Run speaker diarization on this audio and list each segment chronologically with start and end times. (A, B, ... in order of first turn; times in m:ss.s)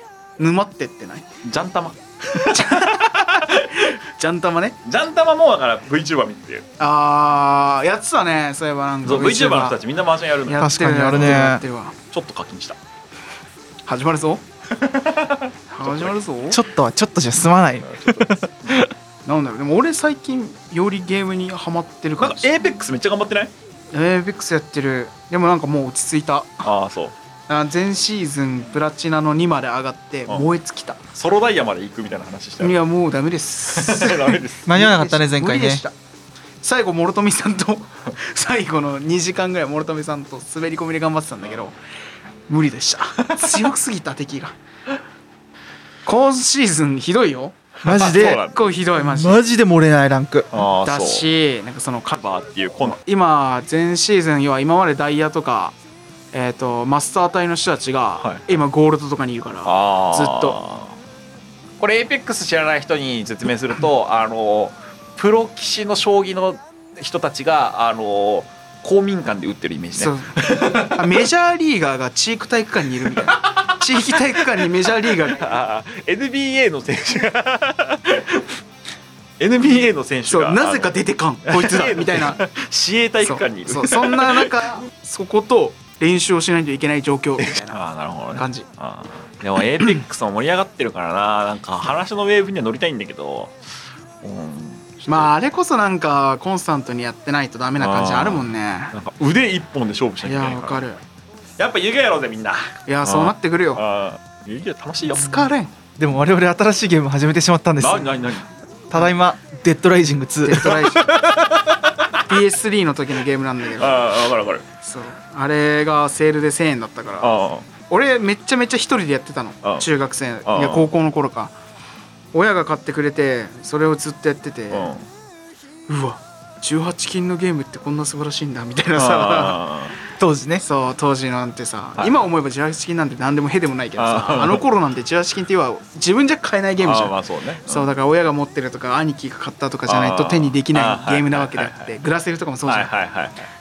0:00.4-0:01.3 A
0:01.4-0:04.0 B
0:02.3-0:04.8 A
0:04.8-0:06.6 B
0:06.8-0:09.8 A
0:09.0-0:11.5 B
0:10.4-0:12.0 A
0:10.6-0:11.6 C
0:12.1-0:12.8 B
0:13.9-0:14.4 A
0:14.8-0:16.2 B
0:15.7-0:16.6 A
0:16.5-0:18.9 C
0:17.8-0:18.8 B
0:19.2-0:22.5 A
0:22.2-0:23.5 B
0:23.9-0:26.7 A
0:26.6-0:27.2 B
0:27.5-0:31.0 A
0:31.1-0:32.8 B
0:32.6-0:35.9 A
0:33.7-0:34.7 B
0:34.7-0:35.8 C
0:36.6-0:41.8 A
0:42.5-0:44.6 A
0:43.3-0:43.7 B
0:46.0-0:49.4 A
0:47.8-0:48.6 B
0:47.8-0:50.5 C
0:50.5-0:51.3 B
0:50.8-0:52.2 A
0:52.1-0:53.0 B
0:52.8-0:55.8 A
0:56.3-1:00.6 A
0:58.2-0:58.5 B
0:59.6-1:01.0 B
1:01.8-1:11.3 B
1:10.0-1:15.6 A
1:13.0-1:18.5 B
1:19.4-1:24.8 B
1:20.3-1:22.4 A
1:23.2-1:27.8 A
1:27.4-1:33.5 B
1:28.3-1:28.7 A
1:34.2-1:35.3 B
1:35.0-1:38.9 A
1:37.8-1:40.8 B
1:40.2-1:41.0 A
1:41.6-1:45.5 B
1:42.9-1:43.8 A
1:45.1-1:45.7 A
1:46.0-1:48.1 C
1:47.8-1:48.5 B
1:48.9-1:51.8 C
1:50.4-1:51.2 A
1:52.2-1:54.2 A
1:53.8-1:54.6 B
1:54.8-2:01.6 A
1:57.2-1:57.7 B
2:00.5-2:00.9 B
2:02.3-2:04.9 A
2:04.7-2:05.1 B
2:05.9-2:09.6 A
2:09.0-2:10.0 B
2:10.2-2:10.6 C
2:10.6-2:22.9 A
2:12.0-2:12.2 B
2:14.0-2:14.7 B
2:16.8-2:17.9 B
2:19.9-2:21.9 B
2:22.7-2:23.5 B